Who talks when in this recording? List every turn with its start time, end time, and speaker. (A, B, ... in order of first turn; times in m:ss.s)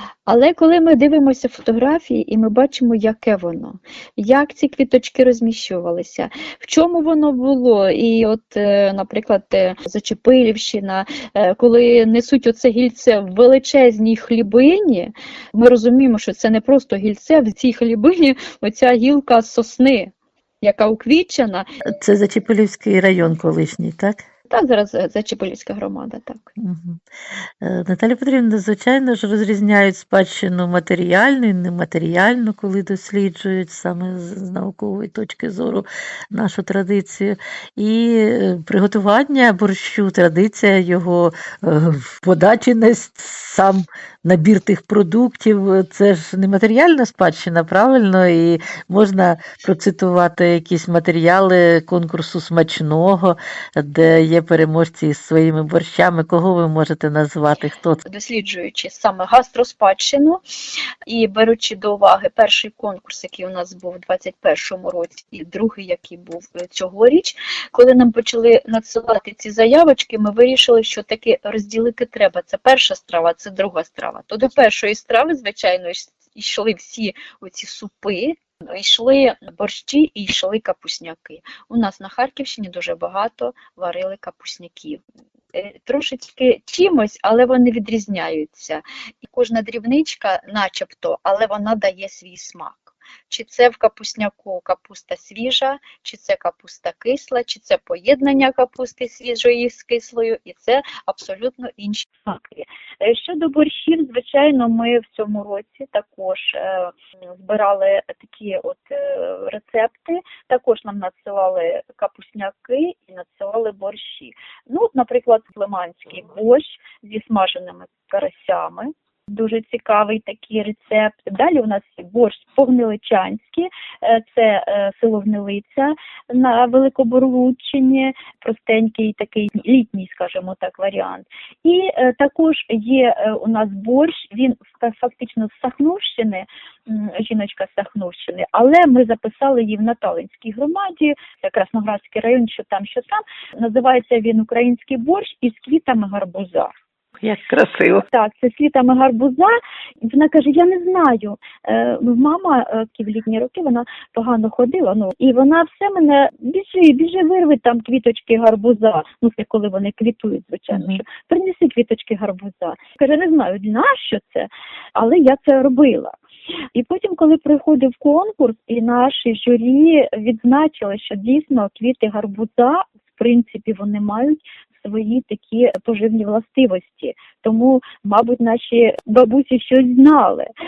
0:00.3-0:21.6 A
0:21.9-0:24.2 B
0:24.5-0:26.4 A
0:26.6-0:27.0 B
0:27.6-0:58.0 B
0:58.0-1:00.4 A
1:01.1-1:25.0 A
1:25.5-2:26.7 A
2:27.2-2:28.1 B
2:28.1-2:29.6 A
2:30.1-2:46.2 A
2:40.7-2:41.0 B
2:46.8-3:00.5 A